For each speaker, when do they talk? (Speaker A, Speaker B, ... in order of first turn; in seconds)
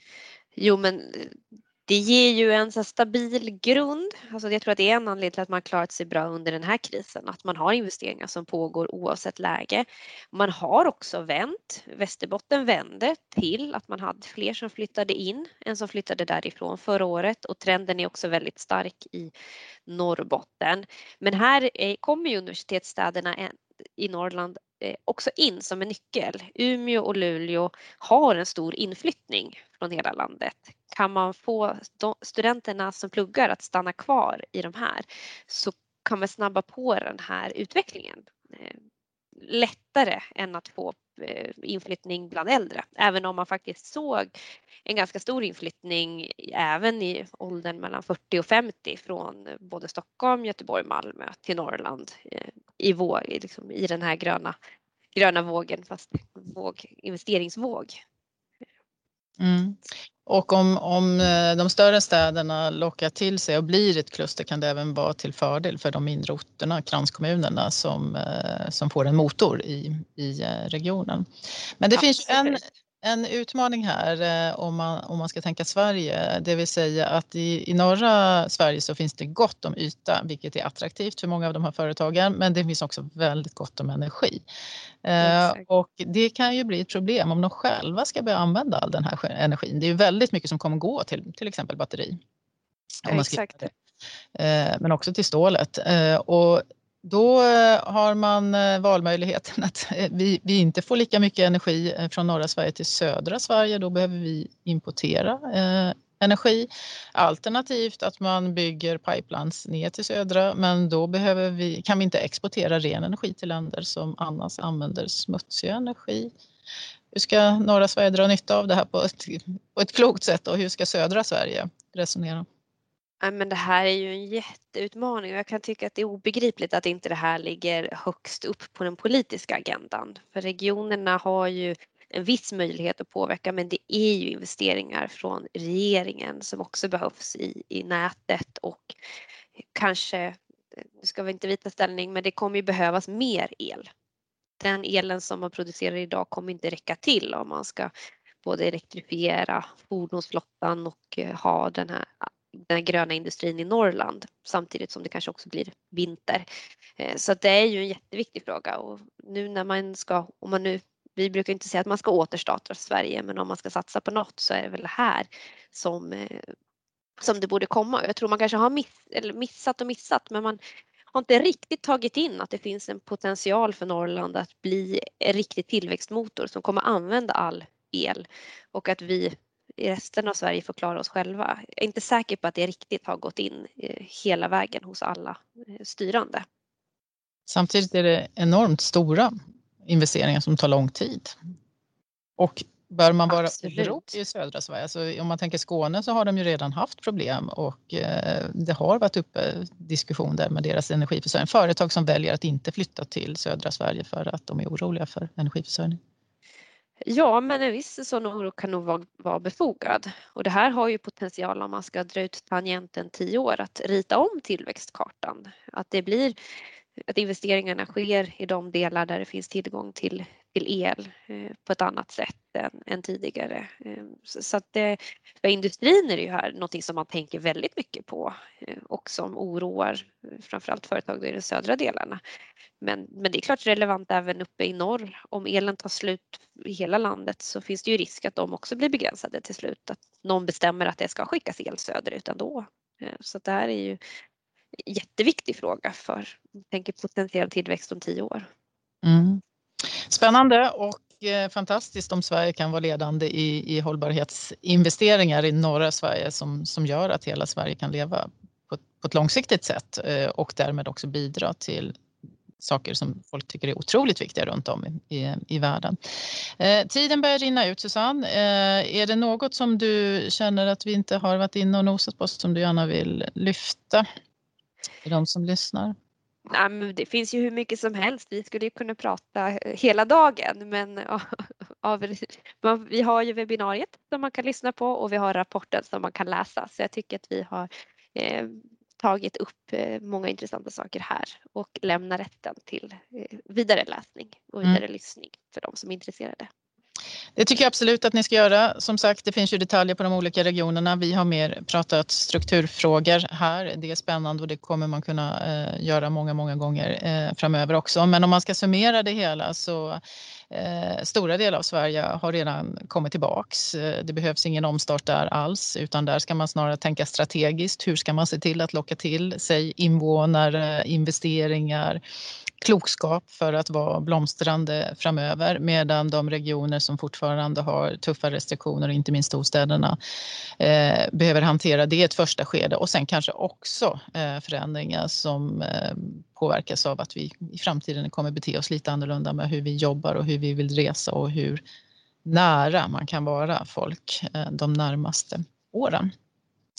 Speaker A: 0.6-19.3, 19.9-38.8, 39.4-44.3, 44.9-54.5, 55.1-58.0, 71.9-72.6, 85.2-85.6, 93.1-93.7, 123.2-138.9, 139.7-143.9, 144.6-147.9, 148.4-156.4, 157.0-166.5, 167.2-170.6, 171.1-186.4, 193.3-194.1, 207.0-216.3, 217.0-232.2, 232.8-244.0, 244.8-248.5, 276.4-296.5
Speaker B: 59.4-71.2, 71.8-84.4, 85.0-92.2, 93.0-93.7, 94.3-116.3, 117.1-122.5, 187.5-189.3, 189.8-191.3, 192.4-206.0, 249.0-262.0, 262.6-266.0, 266.6-274.1, 275.0-275.9, 297.4-310.0, 310.5-322.0, 322.6-330.0, 330.6-341.6, 342.2-346.1